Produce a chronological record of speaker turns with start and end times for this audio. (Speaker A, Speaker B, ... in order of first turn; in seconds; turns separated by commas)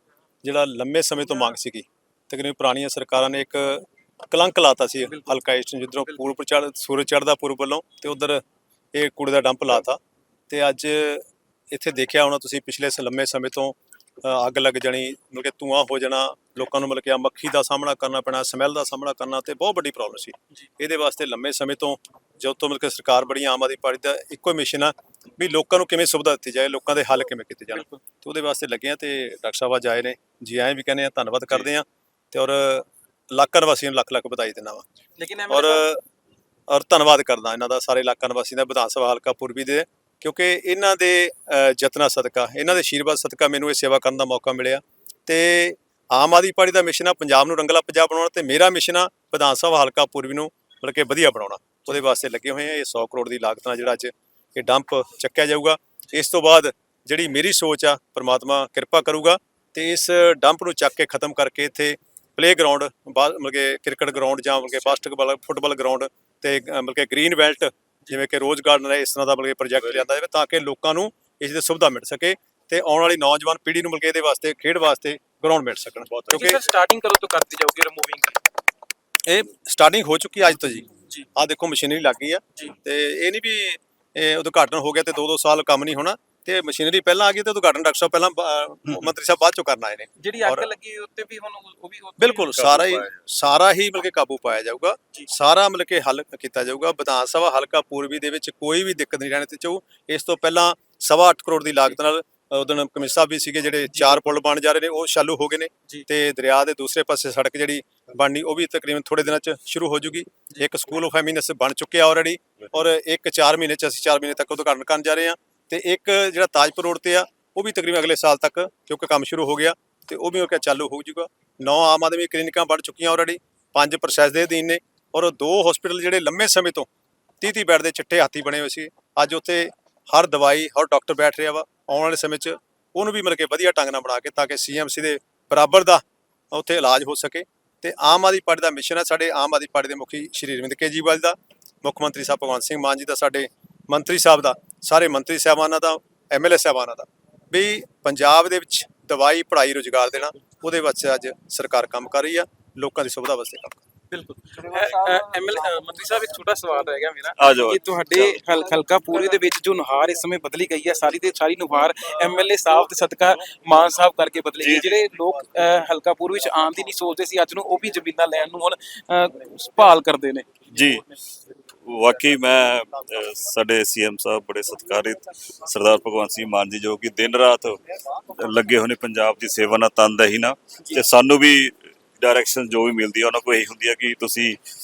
Speaker A: 0.4-8.4, Speaker B: 5.1-5.4, Speaker A: 8.9-34.8, Speaker B: 27.7-28.0, Speaker B: 35.2-35.9, Speaker A: 35.5-36.0, Speaker A: 36.7-76.6, Speaker C: 76.1-76.6, Speaker B: 76.3-78.4, Speaker A: 79.3-90.7, Speaker B: 90.2-92.6, Speaker A: 92.2-126.9, Speaker C: 92.5-93.2, Speaker B: 103.9-104.2, Speaker A: 127.4-153.8, Speaker B: 154.1-170.5, Speaker C: 157.4-158.4, Speaker C: 164.6-164.9, Speaker C: 170.7-171.1, Speaker C: 171.7-184.6